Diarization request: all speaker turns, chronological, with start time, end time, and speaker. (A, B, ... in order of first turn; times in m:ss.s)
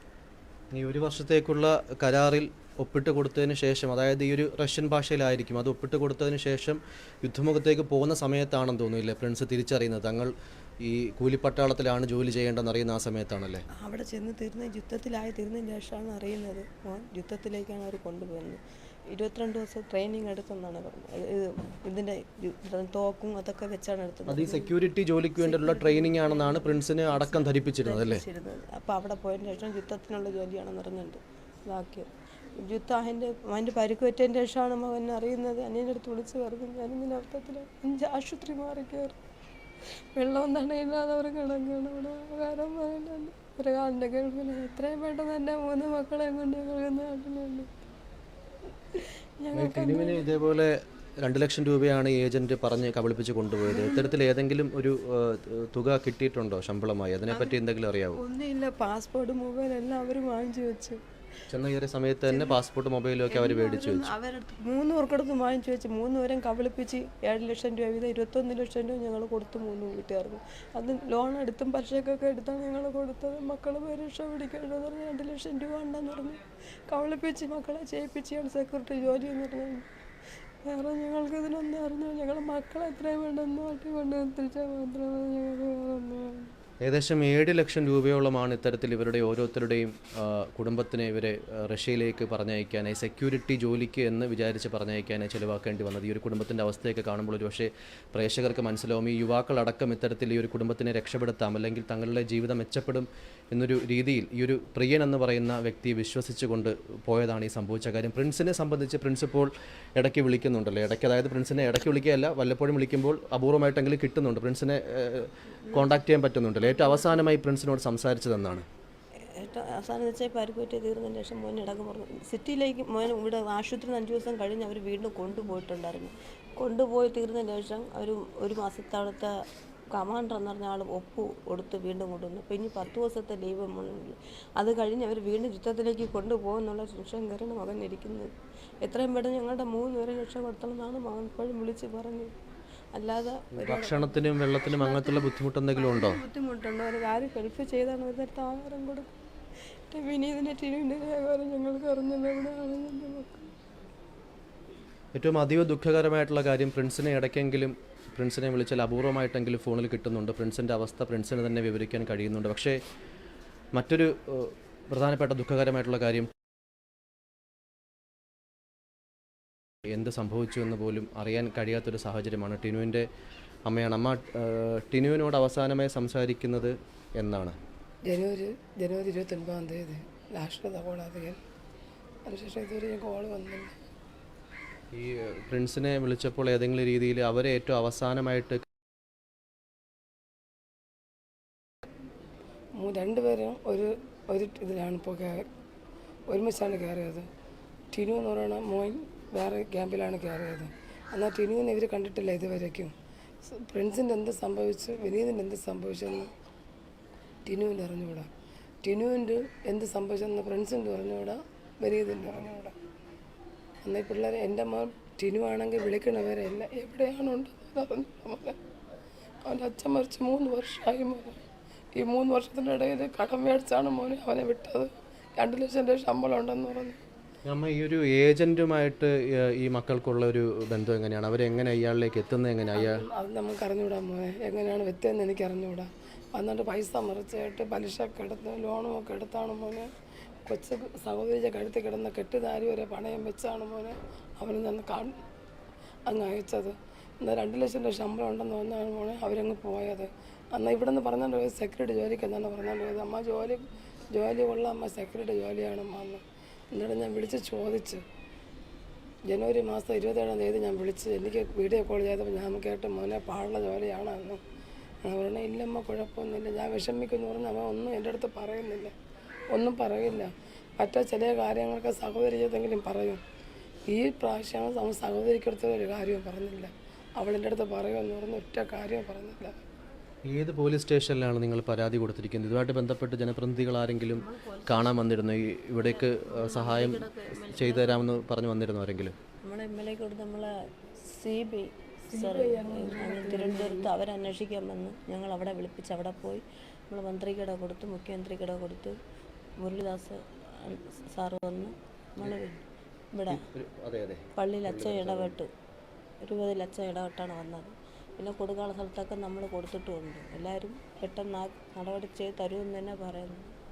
0:00.7-0:13.6 A
0:13.8-0:24.8 B
0:24.3-0:28.2 A
0:25.4-0:39.2 B
0:40.2-0:47.7 B
0:49.0-0:50.3 B
0:49.5-0:58.2 A
0:53.6-0:54.1 B
0:57.3-0:57.6 B
0:58.1-1:01.0 B
1:01.5-1:04.1 A
1:02.3-1:02.6 B
1:03.3-1:19.9 B
1:20.6-1:26.5 B
1:26.8-1:58.7 A
1:56.8-1:57.1 B
1:59.4-2:09.3 B
2:09.9-2:18.3 B
2:18.8-2:22.3 B
2:22.9-2:29.1 B
2:23.5-2:26.2 A
2:29.9-2:33.4 B
2:35.1-2:42.8 A
2:43.8-2:46.3 A
2:49.8-2:53.1 A
2:53.7-2:57.6 A
2:58.1-3:01.4 C
3:02.3-3:03.8 C
3:04.9-3:08.6 A
3:12.8-3:15.5 C
3:16.3-3:17.3 C
3:17.9-3:26.3 C
3:27.4-3:28.3 C
3:28.8-3:32.7 C
3:33.8-3:38.6 C
3:39.4-3:41.4 C
3:41.9-3:47.0 C
3:47.4-3:53.0 A
3:52.7-3:59.9 C
4:00.5-4:05.2 C
4:06.1-4:18.0 C
4:19.3-4:24.4 C
4:25.0-4:28.9 C
4:29.5-4:33.2 C
4:33.9-4:39.6 C
4:40.3-4:49.1 A
4:44.1-4:45.0 B
4:45.8-4:48.0 B
4:49.4-4:50.5 B
4:51.0-4:59.0 B
4:52.1-4:53.9 C
4:59.6-5:03.4 B
5:03.3-5:05.4 A
5:04.4-5:05.5 B
5:06.2-5:13.5 B